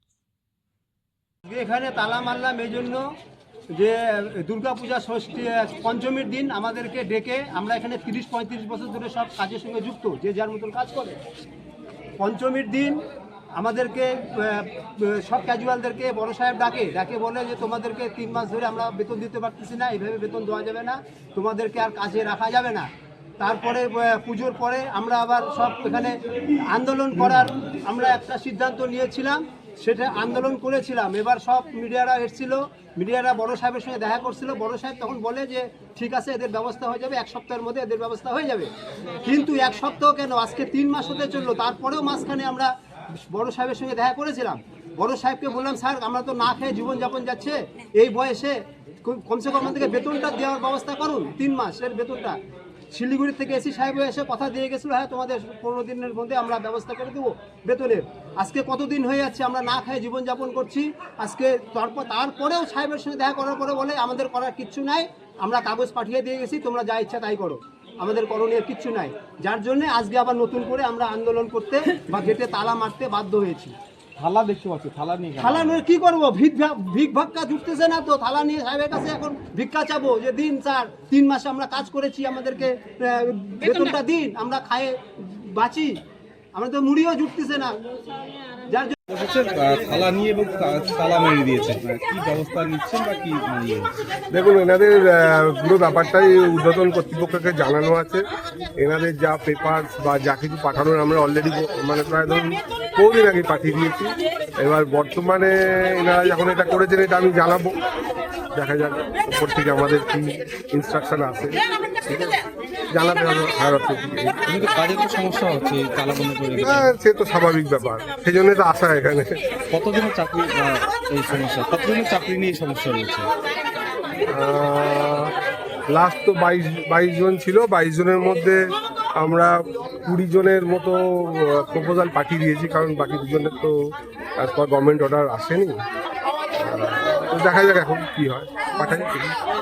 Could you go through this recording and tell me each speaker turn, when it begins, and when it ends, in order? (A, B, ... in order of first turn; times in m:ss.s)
0:01.5-0:03.0 A
0:03.7-0:11.2 A
0:12.2-0:13.0 A
0:13.6-0:22.9 A
0:23.4-0:38.7 A
0:39.2-0:42.7 A
0:43.3-0:52.4 A
0:52.9-1:13.8 A
1:14.2-1:15.8 B
1:15.4-1:26.0 A
1:26.5-1:27.8 A
1:28.7-1:29.0 A
1:29.1-1:33.9 B
1:34.3-1:38.2 C
1:38.8-1:47.7 C
1:48.5-1:52.4 C
1:52.9-1:54.4 C
1:54.5-1:56.9 B
1:56.6-1:59.4 C
1:59.7-2:03.3 B
2:04.3-2:05.3 C
2:05.9-2:08.6 C
2:09.2-2:13.8 C
2:14.4-2:15.8 C
2:16.6-2:19.3 C